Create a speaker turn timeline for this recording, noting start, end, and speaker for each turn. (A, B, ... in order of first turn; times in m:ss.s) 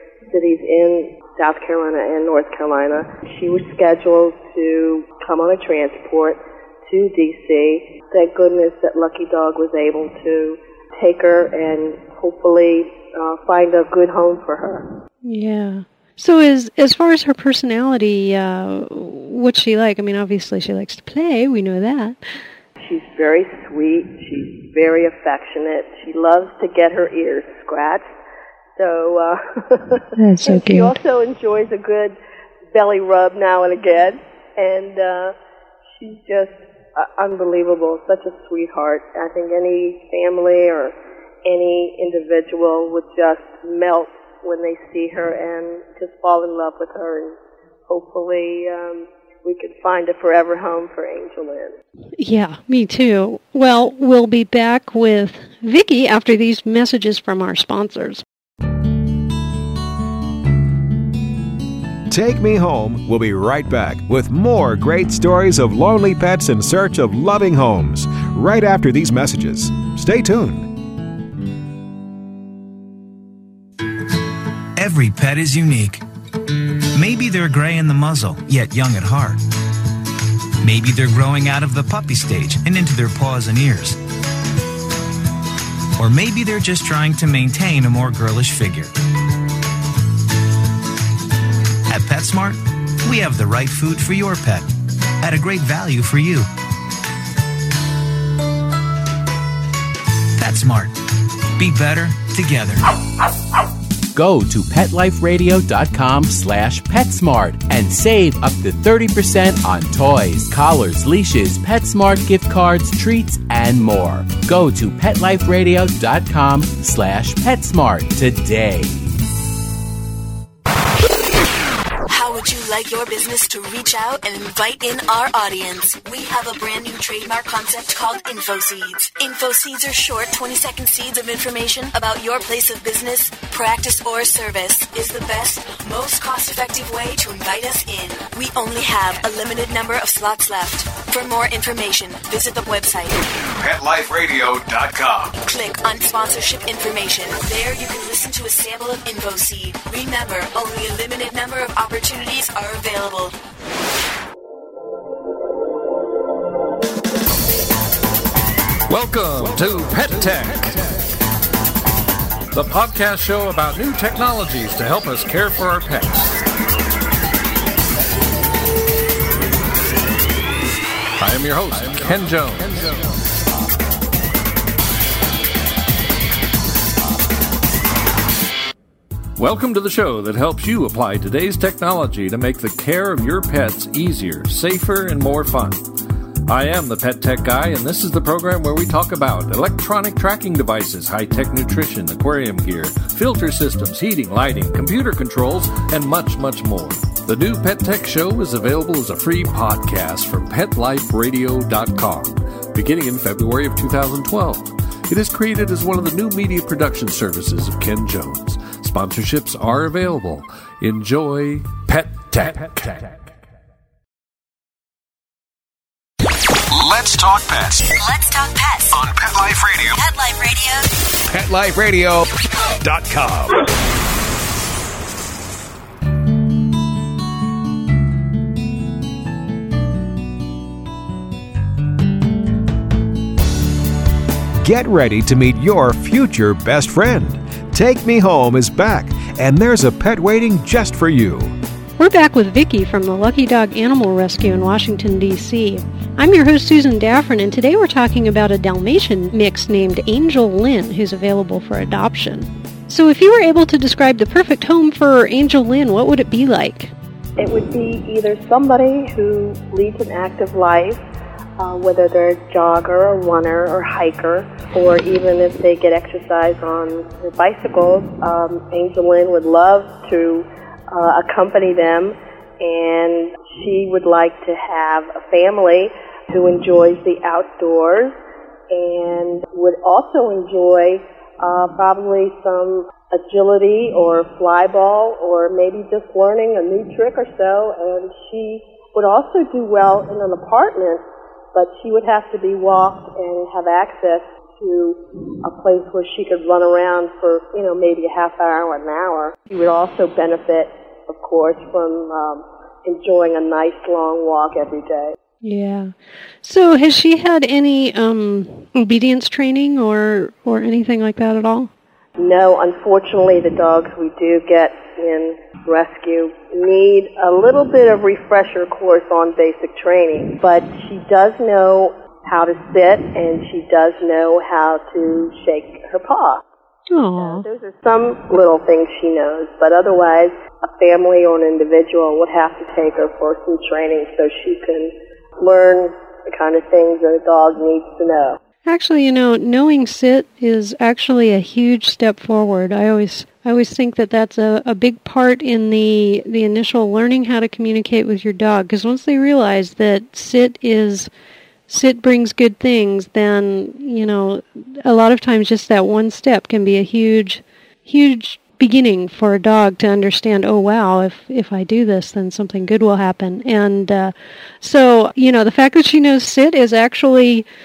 0:00.3-0:14.9 A
0:15.2-0:22.2 B
0:22.8-0:28.0 A
0:28.8-0:32.2 A
0:30.2-0:31.0 B
0:32.7-0:35.3 A
0:36.0-0:47.3 A
0:47.9-0:51.7 A
0:52.2-0:58.2 B
1:02.1-1:10.7 C
1:14.8-1:16.0 D
1:17.0-1:19.4 D
1:20.6-1:24.0 D
1:26.0-1:28.9 D
1:31.9-1:34.7 D
1:35.2-1:36.5 D
1:40.4-1:40.9 D
1:41.6-1:42.8 D
1:44.1-1:59.1 E
2:02.1-2:23.2 F
2:23.6-2:25.3 C
2:25.4-2:33.3 F
2:38.9-2:40.9 G
2:42.5-2:46.2 G
2:51.2-2:53.0 G
2:59.4-3:05.8 G
3:06.5-3:33.2 G
3:36.7-3:37.9 C
3:38.0-3:39.0 F
3:38.9-3:40.1 C
3:39.9-3:40.8 F
3:41.3-3:42.3 C
3:42.8-3:43.6 C
3:54.6-4:01.6 C
4:02.0-4:16.9 B
4:17.4-4:21.0 A
4:21.6-4:38.2 A
4:38.7-4:51.0 A
4:51.5-5:05.2 A
5:05.4-5:05.9 B
5:06.4-5:11.7 B
5:12.2-5:26.4 A
5:26.9-5:27.4 B
5:27.2-5:38.4 A
5:38.6-5:51.1 B
5:51.7-6:07.4 B